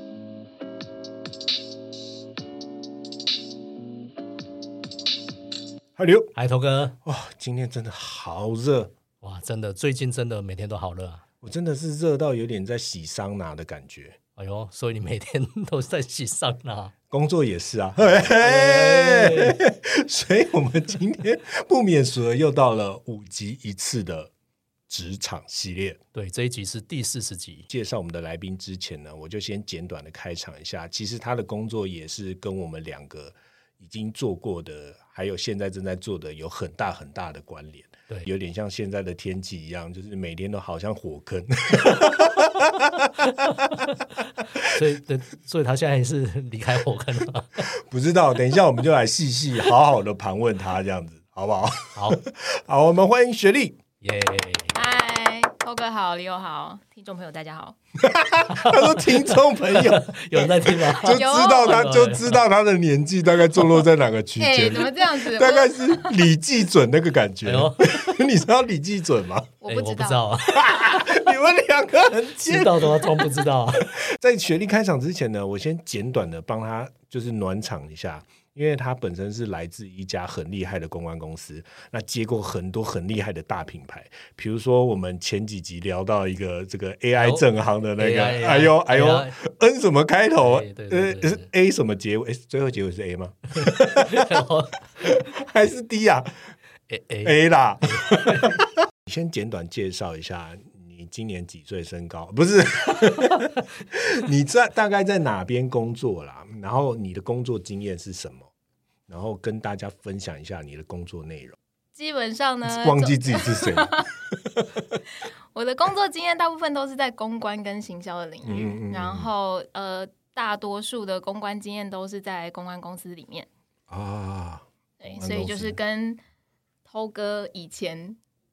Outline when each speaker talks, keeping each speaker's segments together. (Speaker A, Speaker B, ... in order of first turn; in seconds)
Speaker A: 6.0-6.3, 7.0-8.9, 11.4-14.2, 17.1-24.3, 24.9-26.0, 27.7-44.8, 47.6-53.8, 58.0-69.5, 70.4-94.4, 95.0-96.5, 97.2-108.5, 109.1-111.6, 112.6-115.0, 118.4-119.3, 123.9-125.8
Speaker B: 6.3-7.0, 9.2-11.2, 14.4-16.9, 18.4-19.6, 26.1-27.7, 44.6-47.6, 54.0-54.8, 58.5-62.4, 67.4-68.0, 69.7-71.2, 72.4-73.9, 87.2-87.4, 88.0-89.3, 90.4-91.5, 93.5-95.1, 96.9-97.3, 97.9-98.6
Speaker C: 54.7-57.8, 61.0-61.9, 64.4-66.3, 69.6-70.2, 111.9-114.1, 115.5-123.5, 125.0-126.2, 126.8-128.2